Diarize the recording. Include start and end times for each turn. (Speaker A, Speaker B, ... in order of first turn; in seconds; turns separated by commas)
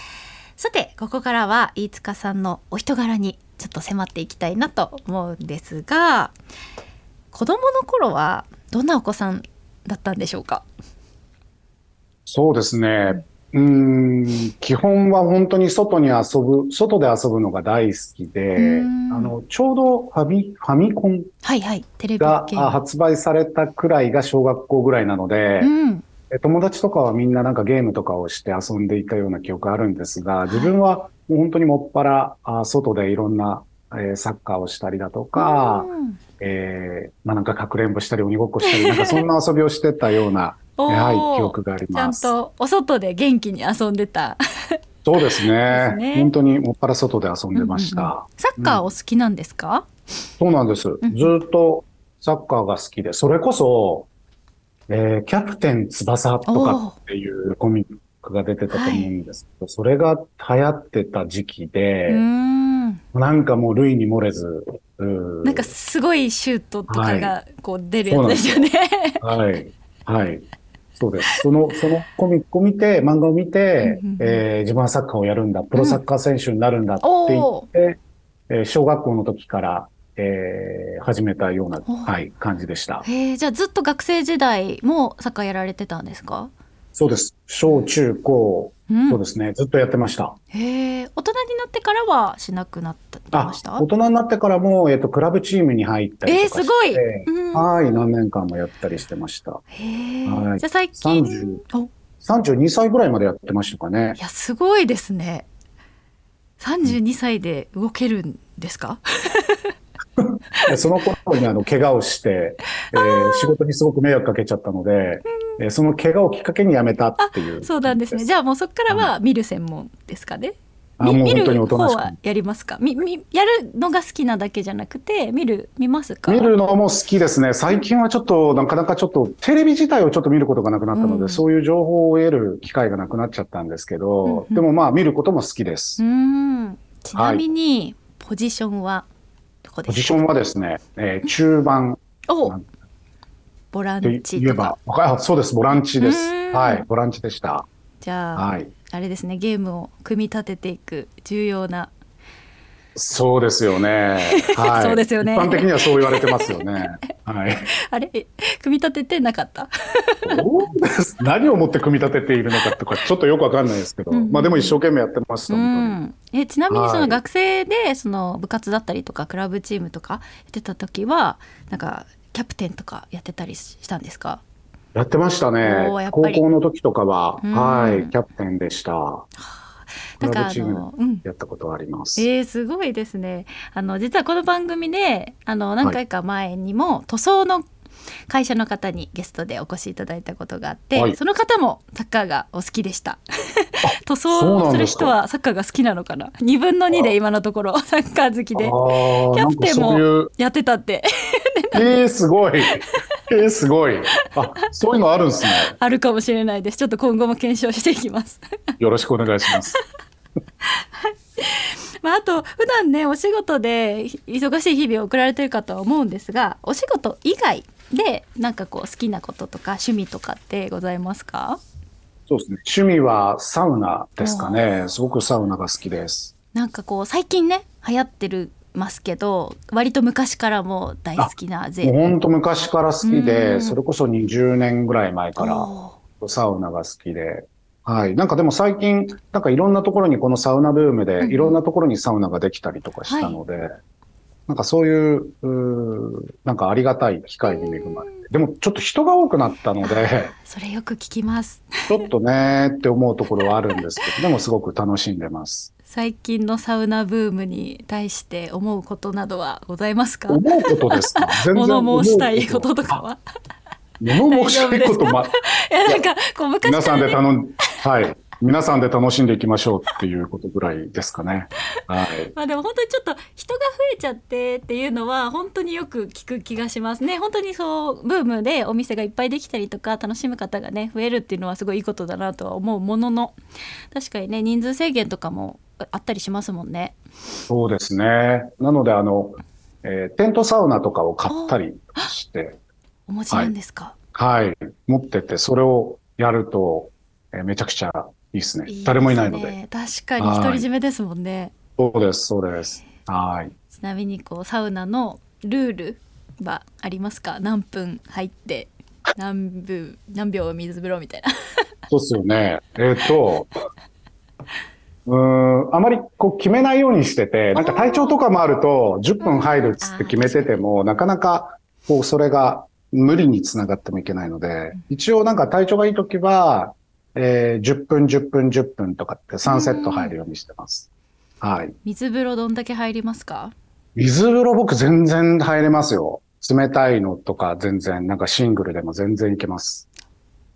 Speaker A: 0.6-6.3, Speaker A: 7.3-10.7, Speaker B: 12.3-21.3, Speaker A: 18.6-19.4, Speaker A: 21.4-22.8, Speaker B: 22.2-25.7, Speaker A: 25.6-26.1, Speaker B: 26.3-35.9, Speaker A: 30.5-30.8, Speaker A: 35.4-36.2, Speaker B: 36.4-42.3, Speaker A: 38.6-39.2, Speaker A: 40.8-46.3, Speaker B: 45.0-48.9, Speaker A: 47.5-49.9, Speaker B: 50.4-54.1, Speaker A: 51.0-51.3, Speaker B: 54.9-62.2, Speaker A: 56.5-57.0, Speaker A: 58.7-59.1, Speaker A: 62.1-63.0, Speaker B: 63.1-65.7, Speaker A: 65.4-69.2, Speaker B: 66.9-67.4, Speaker B: 68.1-68.7, Speaker B: 69.2-70.5, Speaker B: 71.0-78.0, Speaker A: 73.8-74.4, Speaker A: 75.8-76.0, Speaker A: 77.0-77.7, Speaker B: 78.5-83.1, Speaker A: 81.9-82.1, Speaker A: 83.0-86.5, Speaker B: 87.0-90.4, Speaker A: 88.9-89.2, Speaker A: 90.5-93.9, Speaker B: 93.3-99.6, Speaker A: 96.3-98.1, Speaker A: 99.7-101.9, Speaker B: 100.3-101.6, Speaker B: 102.2-104.2, Speaker A: 104.2-105.5, Speaker A: 106.6-109.7, Speaker B: 110.2-118.2, Speaker A: 113.0-113.5, Speaker A: 117.2-126.5, Speaker B: 121.0-122.2, Speaker B: 126.3-136.0, Speaker A: 130.9-131.5, Speaker A: 134.2-134.7, Speaker A: 136.0-139.1, Speaker B: 137.2-137.4, Speaker A: 139.6-140.2, Speaker B: 139.9-142.7, Speaker A: 142.3-142.6, Speaker A: 143.7-144.8, Speaker B: 144.0-147.7, Speaker A: 146.0-146.9, Speaker A: 148.0-151.9, Speaker B: 148.4-148.7, Speaker B: 153.0-157.7, Speaker A: 154.3-156.7, Speaker A: 157.9-160.4, Speaker B: 160.3-166.0, Speaker A: 164.1-164.8, Speaker A: 165.5-174.4, Speaker B: 166.7-167.2, Speaker B: 174.9-179.3, Speaker A: 175.6-176.4, Speaker A: 177.4-178.1, Speaker A: 180.2-181.2, Speaker B: 180.2-182.3, Speaker A: 182.2-187.7, Speaker A: 188.3-198.8, Speaker B: 193.8-195.2, Speaker B: 198.6-200.3, Speaker A: 199.3-202.0, Speaker B: 201.7-205.8, Speaker A: 205.8-208.4, Speaker B: 208.8-209.8, Speaker A: 210.6-221.6, Speaker B: 222.3-226.3, Speaker A: 224.2-224.7, Speaker A: 226.5-232.0, Speaker B: 231.2-243.7, Speaker A: 233.0-233.8, Speaker A: 235.4-236.0, Speaker A: 241.2-241.6, Speaker A: 243.1-243.4, Speaker B: 244.5-250.3, Speaker A: 247.5-248.2, Speaker A: 249.8-252.1, Speaker B: 251.9-255.7, Speaker A: 255.9-263.2, Speaker B: 260.3-263.0, Speaker B: 264.0-265.3, Speaker A: 264.3-267.2, Speaker B: 266.6-272.3, Speaker A: 272.3-283.4, Speaker A: 283.9-287.0, Speaker B: 287.5-292.6, Speaker A: 291.3-292.1, Speaker A: 293.1-293.9, Speaker B: 294.1-299.6, Speaker A: 298.7-301.5, Speaker B: 300.2-300.7, Speaker B: 301.8-303.5, Speaker A: 303.8-311.3, Speaker B: 311.9-313.5, Speaker B: 315.1-330.9, Speaker A: 317.6-318.2, Speaker A: 319.2-320.6, Speaker A: 329.4-330.1, Speaker B: 331.4-331.8, Speaker A: 331.9-333.6, Speaker B: 334.0-339.9